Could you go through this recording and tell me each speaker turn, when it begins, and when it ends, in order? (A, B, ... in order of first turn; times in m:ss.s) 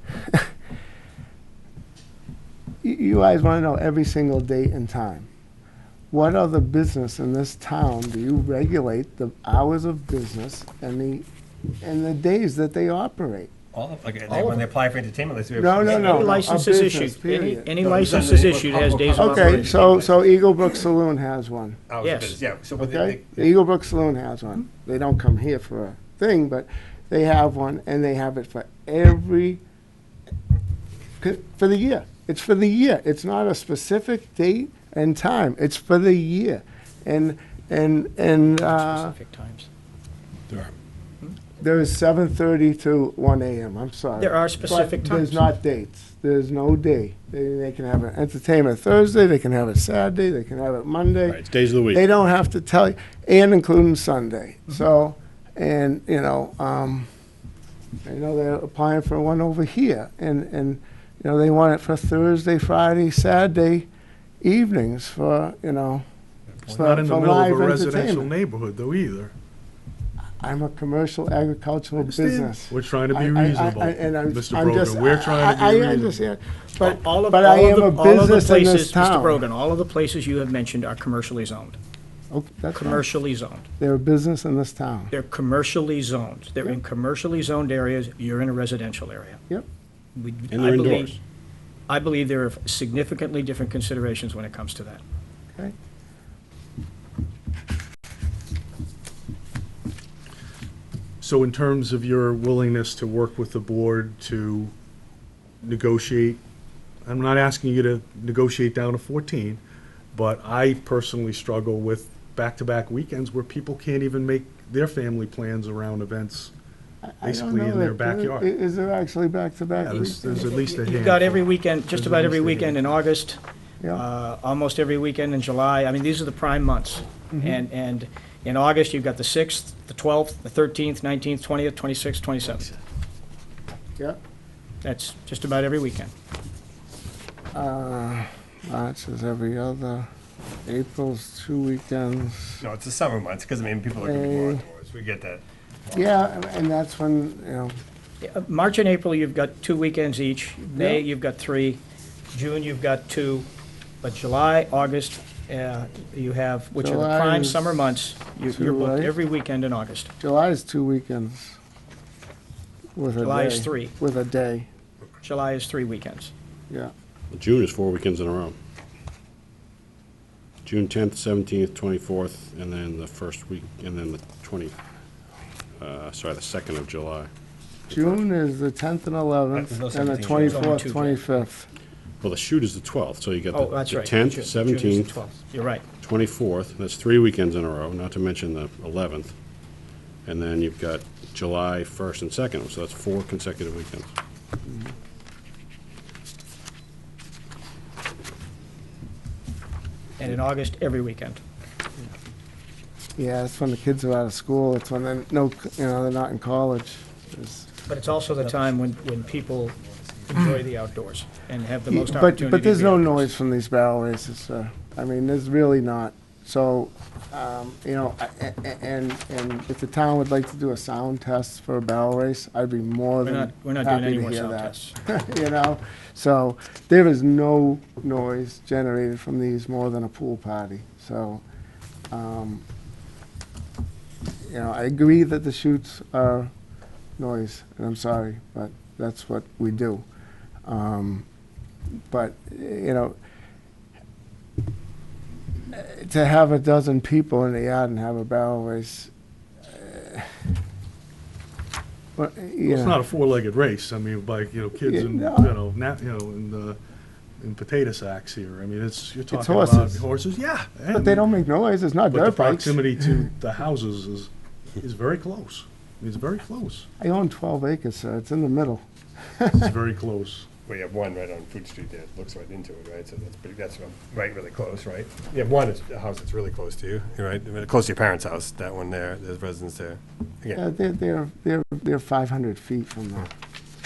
0:02.8-0:05.3 A
0:06.1-0:11.3 A
0:11.8-0:13.5 A
0:13.7-0:16.4 B
0:14.3-0:14.7 C
0:15.5-0:18.1 A
0:15.8-0:19.8 C
0:17.8-0:20.5 B
0:19.1-0:21.8 A
0:21.9-0:23.5 B
0:22.0-0:22.4 C
0:22.8-0:29.6 A
0:31.2-0:39.2 A
0:38.4-0:39.7 C
0:41.6-0:57.1 A
0:44.2-0:45.5 C
0:51.3-0:52.1 D
0:58.0-1:03.9 A
1:04.4-1:06.0 A
1:06.7-1:09.3 E
1:06.7-1:08.3 A
1:10.4-1:19.4 A
1:12.0-1:16.2 E
1:16.8-1:21.8 C
1:22.3-1:23.1 A
1:22.8-1:23.7 C
1:23.8-1:25.1 A
1:25.1-1:29.4 C
1:30.2-1:31.2 C
1:30.5-1:31.1 D
1:31.9-1:35.0 C
1:41.2-1:44.7 E
1:45.6-1:46.4 E
1:47.1-1:49.6 E
1:50.1-1:56.5 E
1:57.0-2:00.5 A
1:57.2-1:58.5 E
1:59.8-2:02.8 E
2:00.0-2:03.4 C
2:03.9-2:12.7 C
2:14.8-2:16.1 C
2:17.5-2:20.1 A
2:20.6-2:22.6 A
2:22.6-2:26.3 B
2:24.0-2:24.7 A
2:25.9-2:27.8 A
2:28.2-2:31.8 C
2:30.7-2:31.0 A
2:32.3-2:33.5 C
2:34.0-2:40.1 C
2:36.8-2:37.6 A
2:38.5-2:39.2 A
2:40.2-2:41.6 A
2:43.0-2:44.7 A
2:43.2-2:43.9 C
2:45.2-2:46.3 C
2:47.3-2:48.6 D
2:50.6-2:54.8 D
2:55.8-2:57.3 D
2:57.9-2:58.2 D
2:57.9-3:01.7 A
2:59.5-3:00.8 B
3:00.1-3:01.4 C
3:02.2-3:05.2 D
3:03.5-3:05.8 C
3:06.0-3:09.3 D
3:10.3-3:14.1 D
3:20.2-3:21.4 C
3:23.2-3:27.7 A
3:27.9-3:29.7 C
3:28.1-3:30.8 B
3:30.3-3:33.3 C
3:31.9-3:51.4 A
3:43.2-3:45.0 C
3:52.1-3:52.6 A
3:54.4-3:56.5 A
3:57.2-4:00.0 A
4:00.7-4:01.3 A
4:02.1-4:03.2 A
4:05.7-4:09.1 A
4:09.7-4:10.3 A
4:12.2-4:13.0 A
4:12.6-4:16.8 E
4:14.8-4:15.5 A
4:17.4-4:21.2 E
4:19.3-4:20.0 A
4:20.9-4:23.3 A
4:22.1-4:26.9 E
4:27.0-4:29.7 A
4:29.5-4:30.5 E
4:30.7-4:40.6 B
4:40.6-4:43.3 A